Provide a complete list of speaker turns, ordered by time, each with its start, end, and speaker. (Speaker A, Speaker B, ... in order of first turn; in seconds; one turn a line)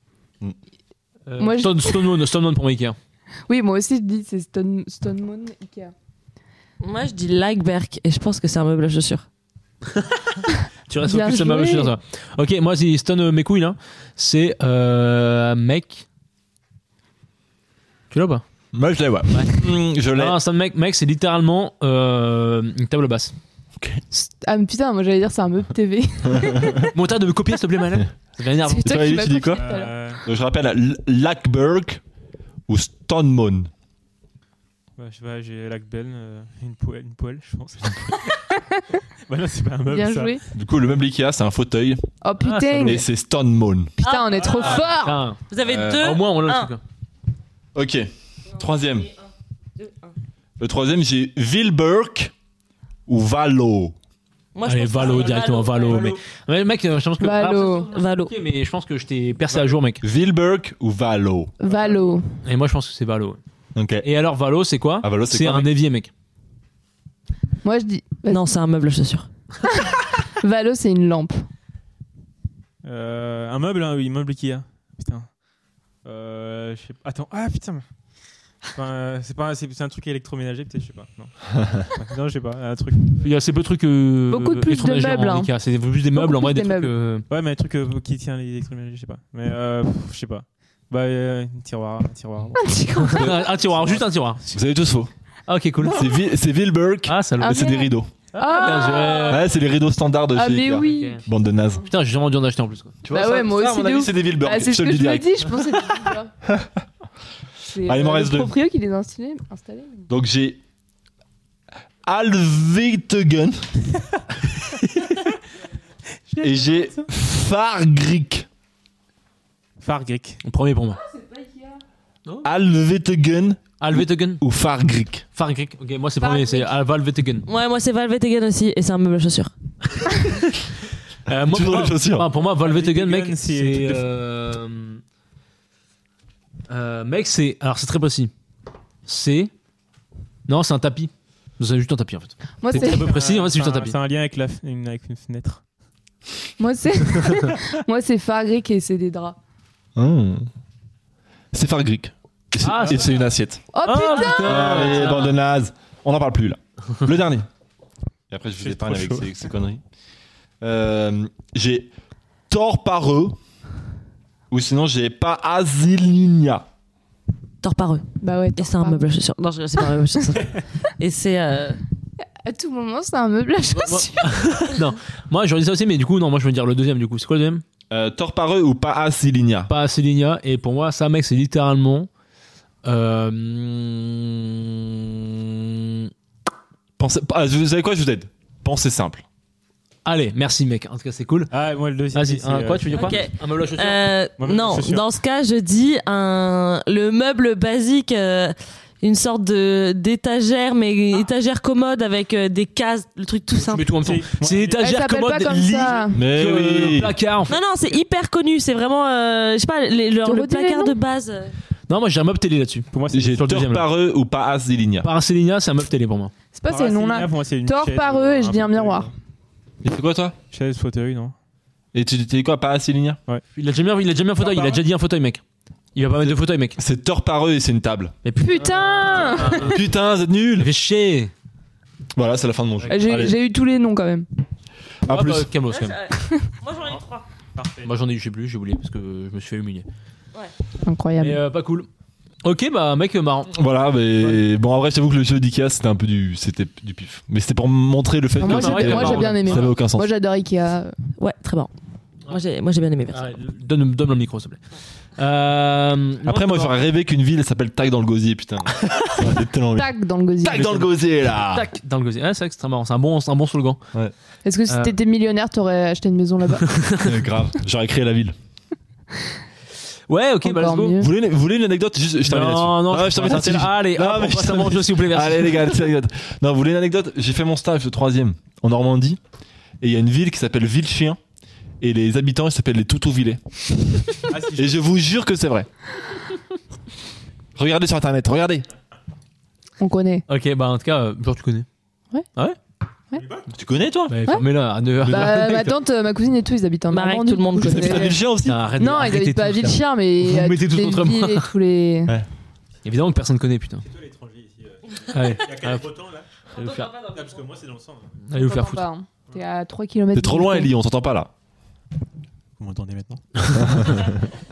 Speaker A: 1.3-3.0
Speaker B: 1.4-2.1
Speaker B: 3.5-5.9
Speaker C: 6.8-9.2
Speaker A: 10.9-16.0
Speaker B: 11.0-11.9
Speaker A: 18.1-18.4
Speaker D: 18.7-20.4
Speaker A: 19.3-19.6
Speaker A: 20.1-23.3
Speaker B: 24.1-26.9
Speaker D: 26.3-26.9
Speaker A: 26.9-29.4
Speaker B: 28.7-29.9
Speaker D: 28.8-29.7
Speaker E: 29.5-30.2
Speaker D: 30.2-32.0
Speaker D: 32.7-33.7
Speaker E: 35.0-38.3
Speaker E: 39.3-40.4
Speaker B: 39.9-40.4
Speaker D: 40.5-42.0
Speaker B: 42.2-43.0
Speaker A: 42.4-43.0
Speaker D: 42.8-43.9
Speaker B: 44.0-45.2
Speaker C: 44.0-44.9
Speaker A: 44.6-46.8
Speaker C: 45.5-46.7
Speaker D: 47.8-49.1
Speaker C: 49.8-50.1
Speaker D: 50.6-52.3
Speaker D: 53.1-54.0
Speaker C: 54.5-56.1
Speaker A: 54.7-60.0
Speaker B: 57.2-57.9
Speaker C: 57.9-58.3
Speaker D: 60.0-61.5
Speaker B: 61.6-62.2
Speaker A: 62.4-63.4
Speaker D: 63.8-64.1
Speaker A: 64.0-66.1
Speaker D: 65.0-65.7
Speaker B: 67.6-68.5
Speaker C: 68.3-69.3
Speaker B: 69.7-71.4
Speaker E: 72.8-75.3
Speaker E: 76.0-77.8
Speaker E: 78.7-81.3
Speaker E: 81.8-83.3
Speaker A: 83.2-87.2
Speaker B: 84.3-85.5
Speaker B: 86.1-86.9
Speaker E: 87.3-92.6
Speaker B: 92.6-93.5
Speaker A: 93.1-94.4
Speaker D: 94.5-95.1
Speaker A: 95.5-96.1
Speaker D: 95.8-98.1
Speaker A: 97.1-97.7
Speaker B: 97.4-99.4
Speaker A: 98.3-99.5
Speaker D: 99.3-101.9
Speaker B: 100.3-101.3
Speaker A: 100.9-101.2
Speaker A: 101.9-103.0
Speaker D: 103.0-105.4
Speaker B: 103.1-106.3
Speaker D: 106.5-106.8
Speaker B: 107.7-110.1
Speaker D: 107.8-108.5
Speaker D: 110.1-110.6
Speaker D: 112.1-113.7
Speaker E: 116.3-117.0
Speaker D: 116.4-118.5
Speaker E: 119.8-120.4
Speaker A: 120.5-121.0
Speaker B: 121.1-121.8
Speaker D: 122.4-125.3
Speaker A: 123.8-124.4
Speaker A: 125.4-127.5
Speaker B: 126.2-126.7
Speaker C: 127.5-129.5
Speaker A: 131.3-135.0
Speaker D: 131.4-132.3
Speaker E: 132.5-134.0
Speaker A: 136.7-138.3
Speaker A: 139.1-139.5
Speaker A: 140.5-143.9
Speaker B: 142.6-143.1
Speaker E: 142.7-145.6
Speaker B: 146.6-149.4
Speaker D: 149.9-150.5
Speaker D: 151.5-153.6
Speaker A: 152.6-153.2
Speaker B: 153.7-155.3
Speaker A: 153.8-155.3
Speaker D: 154.4-157.5
Speaker D: 158.3-159.8
Speaker E: 158.6-159.4
Speaker D: 160.6-161.9
Speaker D: 162.5-163.4
Speaker D: 164.5-166.7
Speaker C: 167.6-171.8
Speaker B: 168.2-169.1
Speaker B: 172.4-174.6
Speaker A: 173.7-177.6
Speaker D: 177.9-179.7
Speaker A: 179.7-182.1
Speaker A: 182.8-186.1
Speaker D: 187.0-189.2
Speaker A: 190.1-191.5
Speaker E: 191.5-193.2
Speaker A: 192.1-194.1
Speaker C: 192.9-203.9
Speaker E: 194.4-195.1
Speaker A: 203.6-207.6
Speaker E: 204.0-204.8
Speaker B: 204.8-206.2
Speaker D: 206.1-207.1
Speaker C: 207.5-211.5
Speaker B: 210.2-210.9
Speaker A: 211.9-213.9
Speaker E: 212.9-213.3
Speaker D: 213.1-215.1
Speaker A: 215.0-216.3
Speaker B: 216.6-219.1
Speaker E: 216.7-219.1
Speaker D: 219.8-220.4
Speaker E: 220.5-221.3
Speaker D: 221.9-223.2
Speaker A: 223.6-225.4
Speaker E: 224.4-224.8
Speaker A: 225.9-226.8
Speaker D: 226.2-228.2
Speaker A: 228.2-229.8
Speaker B: 228.4-229.8
Speaker D: 229.6-230.7
Speaker A: 230.6-231.3
Speaker D: 232.1-233.4
Speaker A: 232.8-233.3
Speaker B: 232.9-234.3
Speaker D: 235.1-235.5
Speaker A: 235.1-236.0
Speaker C: 235.7-237.2
Speaker E: 237.6-237.9
Speaker A: 237.8-239.9
Speaker B: 240.8-241.4
Speaker A: 241.2-241.9
Speaker A: 242.4-243.5
Speaker D: 243.5-250.1
Speaker B: 248.4-250.9
Speaker A: 248.4-249.7
Speaker C: 251.2-251.7
Speaker C: 252.3-253.2
Speaker A: 253.1-254.6
Speaker A: 255.2-256.8
Speaker D: 256.2-261.7
Speaker A: 258.9-259.1
Speaker B: 259.8-260.9
Speaker A: 261.5-263.8
Speaker B: 264.4-266.7
Speaker A: 264.7-264.9
Speaker A: 266.6-267.1
Speaker D: 267.0-268.4
Speaker A: 270.1-271.0
Speaker B: 270.4-271.1
Speaker D: 271.0-279.2
Speaker A: 272.3-275.8
Speaker D: 279.8-281.2
Speaker D: 281.8-285.7
Speaker E: 284.3-284.9
Speaker D: 287.6-288.7
Speaker B: 289.8-290.2
Speaker A: 290.3-291.7
Speaker E: 293.2-293.4
Speaker D: 293.5-294.2
Speaker A: 294.1-295.8
Speaker B: 295.1-298.2
Speaker C: 296.9-298.1
Speaker D: 297.6-298.7
Speaker A: 298.4-301.5
Speaker B: 298.8-302.2
Speaker A: 302.9-303.8
Speaker E: 303.8-308.1
Speaker A: 305.1-305.9
Speaker A: 308.3-308.9
Speaker B: 308.3-310.7
Speaker D: 310.1-311.3
Speaker E: 312.6-314.1
Speaker D: 313.8-314.0